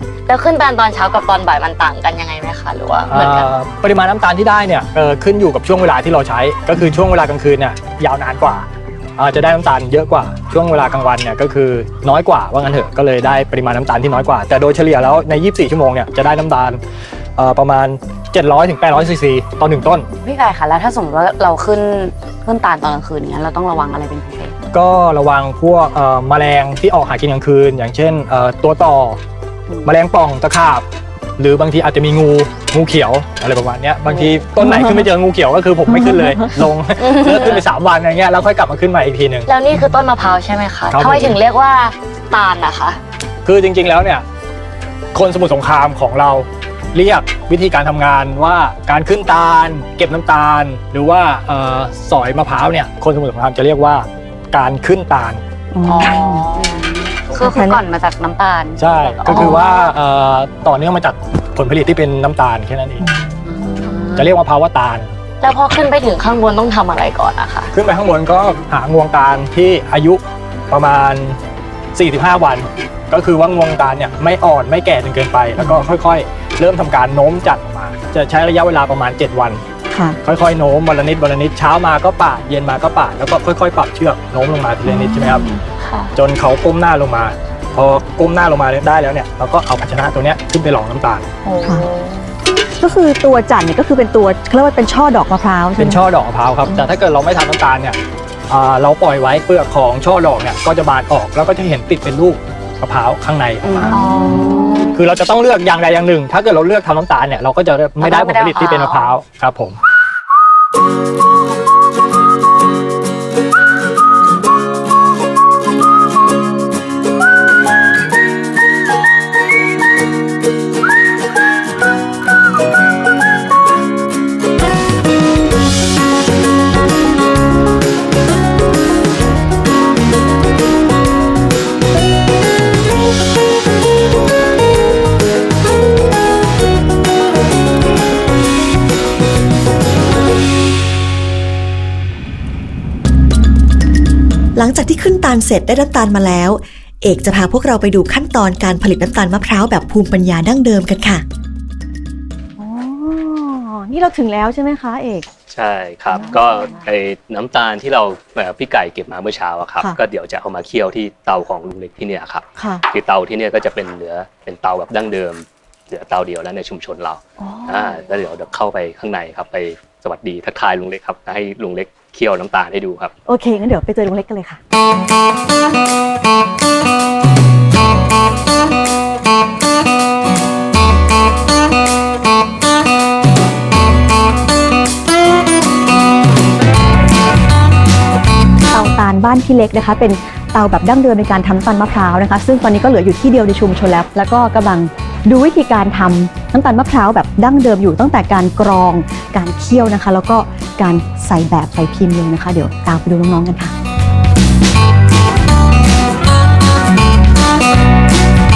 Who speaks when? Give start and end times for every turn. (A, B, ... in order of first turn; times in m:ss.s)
0:00.3-0:03.5 A
0:03.1-0:16.8 B
0:17.4-0:20.1 B
0:20.2-0:24.6 C
0:24.7-0:29.2 B
0:29.8-0:30.8 B
0:31.4-0:39.5 B
0:34.6-0:35.1 D
0:35.9-0:36.5 D
0:37.0-0:37.6 A
0:39.4-0:43.0 A
0:40.9-0:41.4 B
0:43.4-0:44.2 B
0:45.1-0:55.4 B
0:55.7-0:56.4 D
0:55.8-0:59.6 C
0:56.0-0:56.8 A
0:57.4-0:57.8 D
0:58.8-1:03.0 B
0:59.3-0:59.6 A
1:03.0-1:03.4 D
1:03.5-1:04.3 C
1:04.2-1:05.1 B
1:05.4-1:07.7 A
1:07.7-1:10.2 B
1:10.7-1:11.4 B
1:11.9-1:19.6 B
1:19.9-1:20.2 D
1:20.2-1:25.4 B
1:24.8-1:25.6 D
1:25.8-1:26.0 A
1:26.1-1:31.3 B
1:31.4-1:32.3 C
1:32.8-1:36.0 D
1:35.8-1:38.0 B
1:38.5-1:44.0 B
1:43.8-1:44.9 C
1:43.9-1:44.9 A
1:44.9-1:49.8 B
1:48.0-1:49.1 A
2:24.5-2:31.2 E
2:32.6-2:35.3 D
2:35.5-2:53.1 F
2:36.1-2:36.8 D
2:42.6-2:42.8 D
2:47.4-2:48.0 D
2:53.2-2:54.6 D
3:08.7-3:23.7 D